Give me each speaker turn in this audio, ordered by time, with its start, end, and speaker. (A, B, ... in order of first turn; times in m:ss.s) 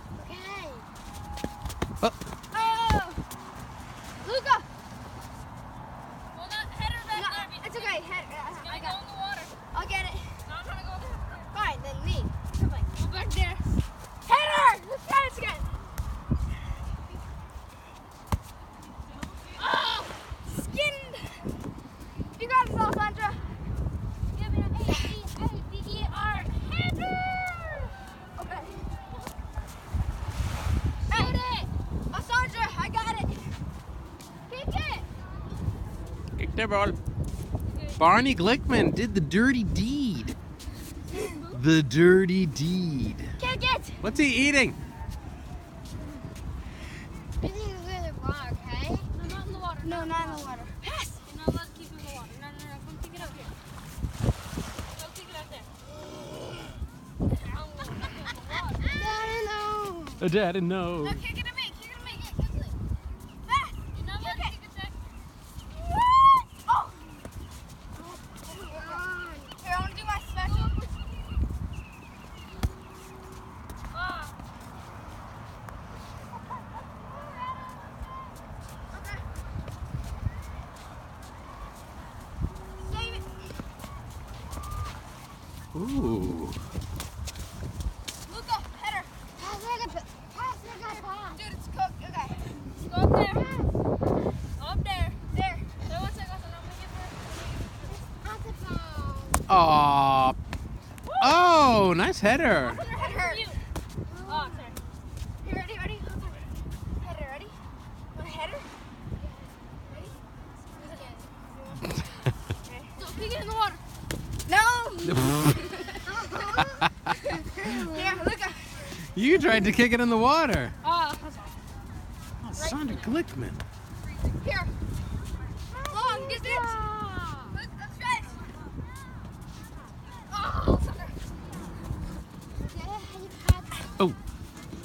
0:00.2-0:00.9 A
0:02.5-0:03.2 B
0:04.2-0:04.7 B
0:06.3-0:08.0 C
0:07.1-0:09.0 B
0:08.6-0:09.5 C
0:09.7-0:10.5 B
0:10.5-0:11.5 C
0:11.5-0:12.9 B
0:12.9-0:13.6 C
0:14.2-0:15.7 B
0:20.5-0:21.5 B
0:22.4-0:23.6 B
0:24.4-0:26.9 C
0:28.4-0:28.8 B
0:31.1-0:31.7 C
0:32.1-0:33.6 B
0:36.4-0:37.0 D
0:37.7-0:38.0 C
0:38.0-0:40.4 D
0:41.1-0:41.6 C
0:41.5-0:43.3 D
0:43.4-0:44.0 A
0:44.0-0:44.8 D
0:47.4-0:49.1 A
0:49.1-0:50.5 C
0:49.8-0:51.2 B
0:51.2-0:53.5 C
0:55.0-0:55.7 C
0:57.4-0:59.0 C
0:58.8-1:00.3 A
1:00.2-1:01.2 D
1:01.0-1:02.2 B
1:02.4-1:02.7 C
1:03.4-1:04.6 B
1:03.9-1:05.0 C
1:06.0-1:07.1 B
1:08.5-1:09.6 A
1:08.7-1:09.0 B
1:09.6-1:10.8 B
1:10.4-1:10.9 C
1:13.9-1:14.3 C
1:22.8-1:23.3 B
1:25.7-1:26.6 D
1:28.3-1:29.1 B
1:29.4-1:31.4 A
1:31.3-1:32.6 B
1:32.8-1:33.4 C
1:33.3-1:33.8 A
1:34.6-1:35.2 C
1:35.3-1:35.8 B
1:35.8-1:38.0 C
1:37.9-1:39.4 A
1:39.5-1:40.4 D
1:41.2-1:42.8 D
1:42.7-1:43.6 C
1:42.7-1:43.5 B
1:44.1-1:44.7 A
1:44.3-1:44.8 C
1:45.4-1:46.5 B
1:47.0-1:47.6 B
1:48.1-1:48.7 B
1:50.8-1:51.3 A
1:52.6-1:53.0 B
1:53.0-1:53.8 C
1:54.5-1:56.6 B
1:55.0-1:55.4 D
1:56.1-1:58.3 A
1:57.7-1:59.0 B
1:59.1-2:00.7 D
1:59.3-1:59.8 A
2:00.8-2:01.6 C
2:02.4-2:03.6 D
2:02.6-2:03.1 C
2:04.4-2:04.7 B
2:05.7-2:07.6 A
2:05.9-2:06.8 B
2:07.6-2:08.5 B
2:10.3-2:11.2 B
2:12.6-2:13.9 A